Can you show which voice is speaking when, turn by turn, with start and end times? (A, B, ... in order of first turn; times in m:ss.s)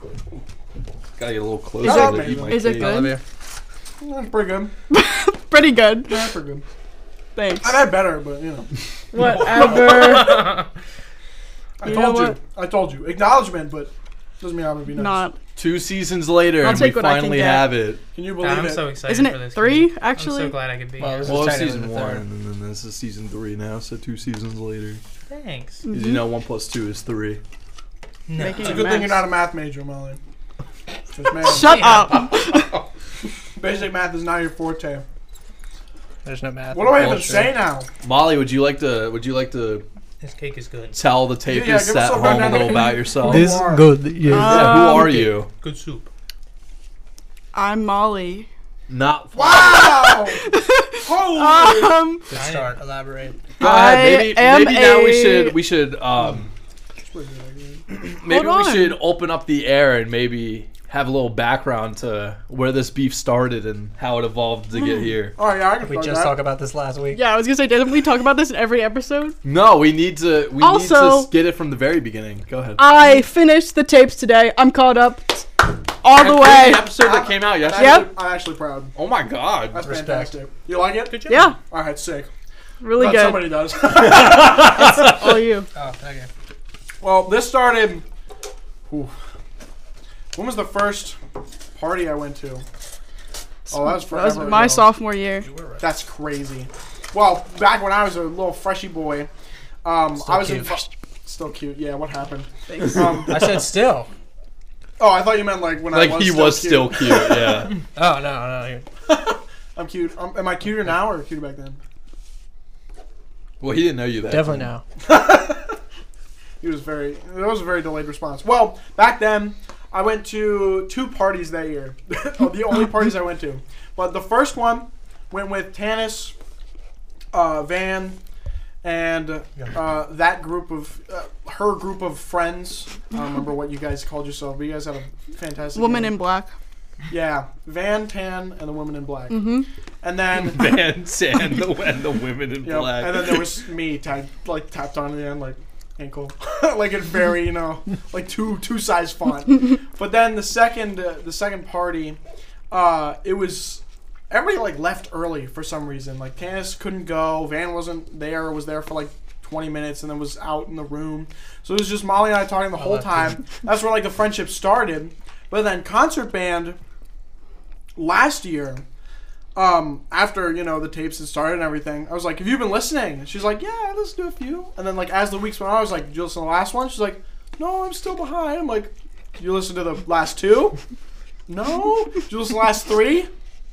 0:01.2-0:03.1 A
0:01.8-0:03.2 B
0:01.8-0:02.7 C
0:02.7-0:03.2 D
0:04.0-0:04.7 C
0:04.9-0:06.4 B
0:06.1-0:06.6 C
0:07.4-0:07.9 B
0:07.6-0:08.7 C
0:09.1-0:10.6 B
0:09.4-0:10.6 E
0:11.8-0:15.2 C
0:11.8-0:12.4 B
0:14.9-0:15.4 B
0:15.6-0:18.0 A
0:16.6-0:17.8 B
0:18.1-0:18.9 C
0:18.4-0:21.6 E
0:19.0-0:20.6 B
0:21.0-0:22.2 D
0:21.2-0:25.0 A
0:25.3-0:25.9 E
0:25.9-0:26.2 B
0:25.9-0:27.4 A
0:28.3-0:29.0 E
0:28.4-0:29.2 B
0:28.6-0:30.2 C
0:31.1-0:32.0 C
0:31.4-0:32.8 B
0:31.5-0:32.4 E
0:33.6-0:35.0 C
0:36.2-0:37.5 D
0:36.7-0:37.9 C
0:37.0-0:39.8 A
0:40.2-0:41.0 E
0:40.9-0:43.7 A
0:41.5-0:43.9 C
0:43.2-0:45.2 D
0:44.2-0:45.3 B
0:44.3-0:45.5 A
0:45.5-0:46.1 E
0:47.5-0:48.5 B
0:48.9-0:50.1 A
0:49.3-0:52.0 C
0:49.8-0:52.3 B
0:52.3-0:53.4 D
0:52.3-0:52.7 E
0:53.6-0:55.6 B
0:53.6-0:56.5 A
0:57.0-0:57.8 C
0:57.9-1:05.4 A
0:58.2-0:59.0 B
1:04.7-1:05.1 B
1:05.4-1:06.4 C
1:05.8-1:07.2 D
1:07.1-1:09.4 B
1:09.4-1:12.8 A
1:10.6-1:11.3 B
1:12.8-1:17.1 B
1:16.1-1:18.1 A
1:17.0-1:19.0 C
1:17.6-1:18.1 B
1:19.0-1:19.8 A
1:19.7-1:22.3 C
1:19.8-1:20.3 D
1:21.2-1:21.6 B
1:22.8-1:23.7 B
1:22.9-1:25.0 C
1:23.9-1:25.3 A
1:24.7-1:25.7 B
1:25.7-1:26.3 D
1:27.0-1:28.0 C
1:28.9-1:29.1 C
1:30.3-1:31.2 C
1:31.7-1:32.6 C
1:33.7-1:34.9 C
1:33.7-1:35.5 B
1:35.4-1:35.8 D
1:35.8-1:39.3 C
1:39.8-1:43.5 C
1:40.2-1:40.9 D
1:42.7-1:43.1 B
1:43.2-1:44.1 D
1:45.0-1:47.6 C
1:45.9-1:47.8 A
1:48.0-1:48.9 D
1:49.1-1:51.8 C
1:53.6-1:54.6 A
1:54.3-1:54.8 D
1:55.0-1:55.8 C
1:56.6-2:06.4 C
2:07.3-2:08.2 C
2:08.8-2:16.2 C
2:15.8-2:16.5 B
2:17.1-2:20.8 C
2:19.3-2:19.6 B
2:20.3-2:23.4 A
2:22.6-2:32.2 C
2:32.7-2:46.8 C
2:42.7-2:43.4 D
2:48.0-2:48.8 C
2:49.6-3:00.8 C
3:01.5-3:03.3 C